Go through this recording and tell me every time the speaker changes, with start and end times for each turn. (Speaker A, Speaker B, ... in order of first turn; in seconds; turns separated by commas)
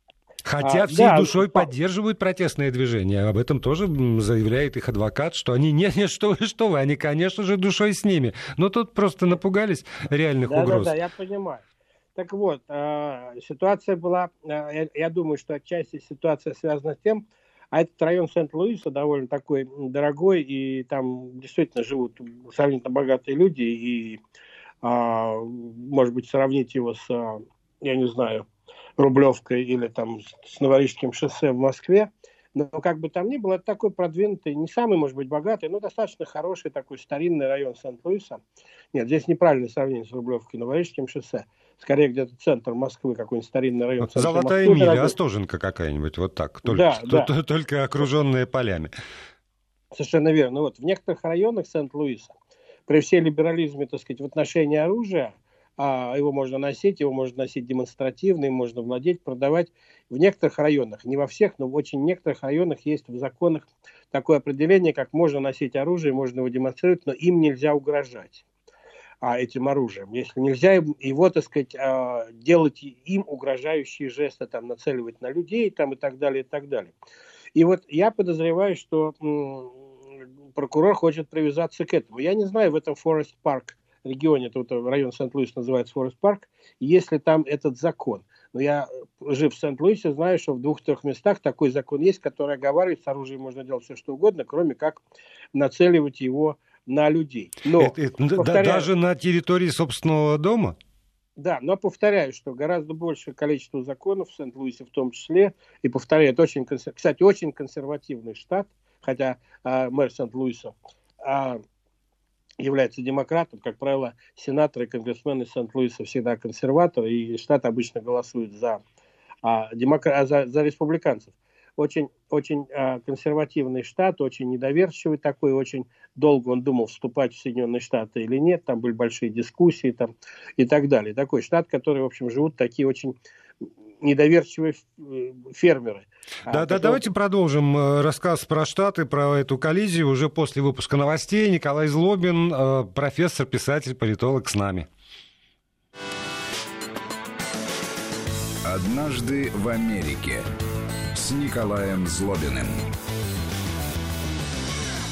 Speaker A: 0.5-10.9, Speaker B: 0.6-1.7, Speaker B: 10.4-11.7, Speaker B: 12.2-24.2, Speaker B: 24.8-28.4, Speaker B: 29.0-38.4, Speaker B: 38.9-45.1, Speaker A: 44.0-48.9, Speaker B: 46.7-47.3, Speaker B: 49.9-52.3, Speaker B: 52.9-68.5, Speaker B: 69.2-76.9, Speaker B: 77.5-79.8, Speaker B: 80.5-95.0, Speaker B: 95.5-98.9, Speaker A: 97.8-100.8, Speaker B: 101.4-111.6, Speaker B: 112.6-118.8, Speaker B: 119.4-133.2, Speaker B: 134.0-137.0, Speaker A: 136.5-144.9, Speaker C: 148.7-150.5, Speaker C: 151.1-152.8